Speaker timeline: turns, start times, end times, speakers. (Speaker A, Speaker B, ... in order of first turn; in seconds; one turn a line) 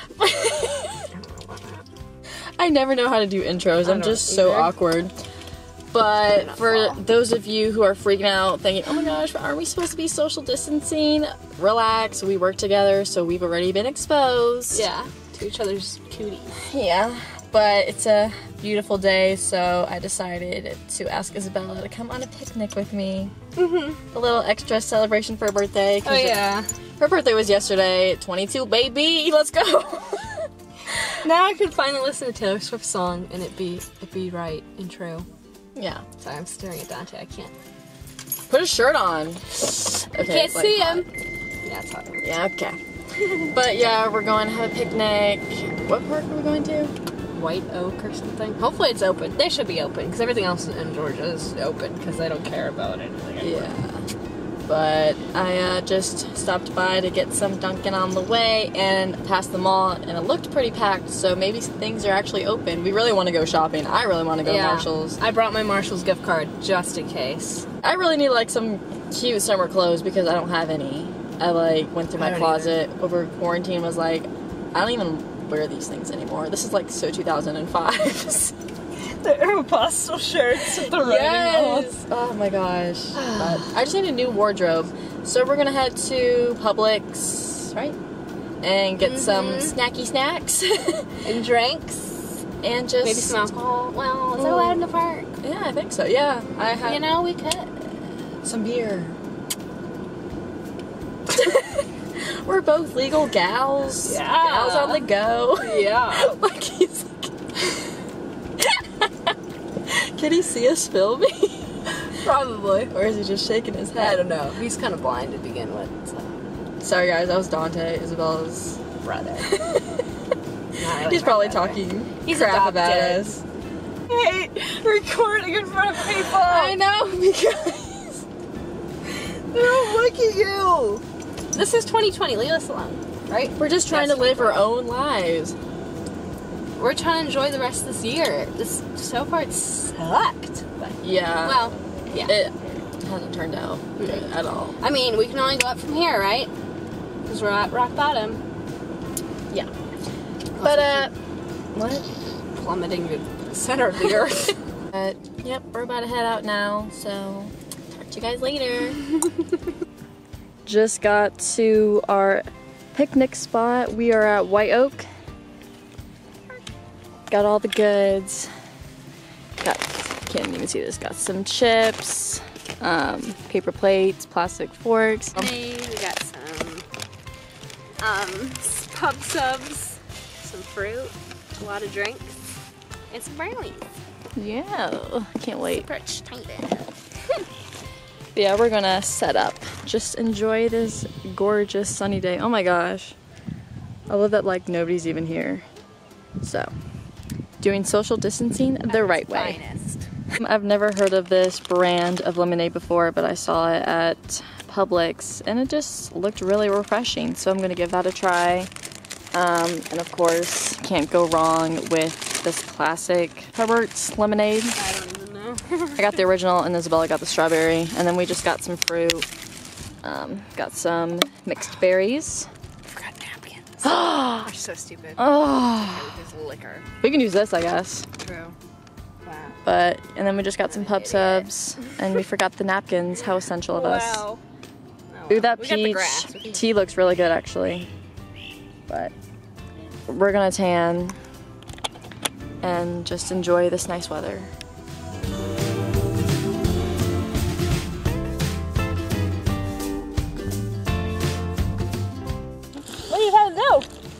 Speaker A: 0.2-1.1
Speaker B: 1.1-1.8
Speaker A: 2.6-5.1
Speaker B: 3.8-4.7
Speaker A: 5.9-14.9
Speaker B: 6.3-7.0
Speaker B: 14.7-16.6
Speaker A: 16.6-23.3
Speaker B: 23.6-24.0
Speaker A: 24.1-31.1
Speaker B: 26.1-26.7
Speaker B: 31.1-35.3
Speaker A: 35.8-36.0
Speaker B: 36.2-37.5
Speaker A: 38.5-41.1
Speaker B: 40.1-41.1
Speaker B: 41.6-42.3
Speaker A: 42.2-42.8
Speaker A: 43.3-46.9
Speaker B: 47.3-53.7
Speaker A: 53.4-54.1
Speaker A: 54.7-65.2
Speaker B: 64.4-67.7
Speaker A: 67.8-78.5
Speaker B: 72.2-72.8
Speaker B: 79.1-82.0
Speaker A: 80.7-88.0
Speaker B: 83.2-83.7
Speaker A: 88.6-91.3
Speaker B: 89.0-89.8
Speaker B: 91.2-92.5
Speaker A: 92.6-93.5
Speaker B: 93.0-95.3
Speaker A: 94.4-94.9
Speaker A: 95.4-97.1
Speaker B: 96.6-98.1
Speaker A: 98.4-99.2
Speaker A: 101.3-107.3
Speaker B: 104.0-106.3
Speaker A: 109.8-111.9
Speaker B: 112.0-112.9
Speaker A: 112.9-114.2
Speaker B: 114.0-116.4
Speaker A: 116.8-118.8
Speaker B: 119.0-119.6
Speaker A: 119.5-120.1
Speaker B: 120.8-123.4
Speaker A: 120.8-123.4
Speaker B: 124.1-126.8
Speaker A: 126.1-128.2
Speaker B: 129.5-134.7
Speaker A: 133.6-135.6
Speaker B: 136.8-142.4
Speaker A: 141.0-144.8
Speaker B: 144.0-144.3
Speaker B: 144.8-146.5
Speaker B: 147.3-148.4
Speaker B: 150.6-151.1
Speaker A: 150.6-151.1
Speaker A: 151.7-152.1
Speaker B: 152.5-154.6
Speaker A: 154.9-159.0
Speaker A: 160.7-165.1
Speaker A: 167.3-168.5
Speaker A: 169.6-175.5
Speaker B: 175.3-176.9
Speaker B: 178.0-182.6
Speaker B: 183.1-183.9
Speaker A: 184.3-185.9
Speaker B: 185.6-186.9
Speaker A: 188.3-193.2
Speaker A: 194.1-195.7
Speaker A: 196.4-196.7
Speaker A: 197.6-199.6
Speaker B: 198.9-200.1
Speaker A: 200.4-208.7
Speaker A: 209.3-214.8
Speaker B: 214.8-216.2
Speaker A: 216.0-219.3
Speaker A: 220.0-222.5
Speaker B: 222.9-226.9
Speaker A: 223.8-224.5
Speaker A: 225.2-226.1
Speaker A: 227.0-228.1
Speaker B: 228.2-228.6
Speaker B: 229.2-229.6
Speaker A: 229.7-234.3
Speaker B: 230.7-232.0
Speaker B: 233.7-234.4
Speaker B: 235.1-236.7
Speaker A: 235.3-237.9
Speaker A: 238.9-239.1
Speaker A: 240.1-241.2
Speaker A: 242.6-244.5
Speaker B: 253.1-253.9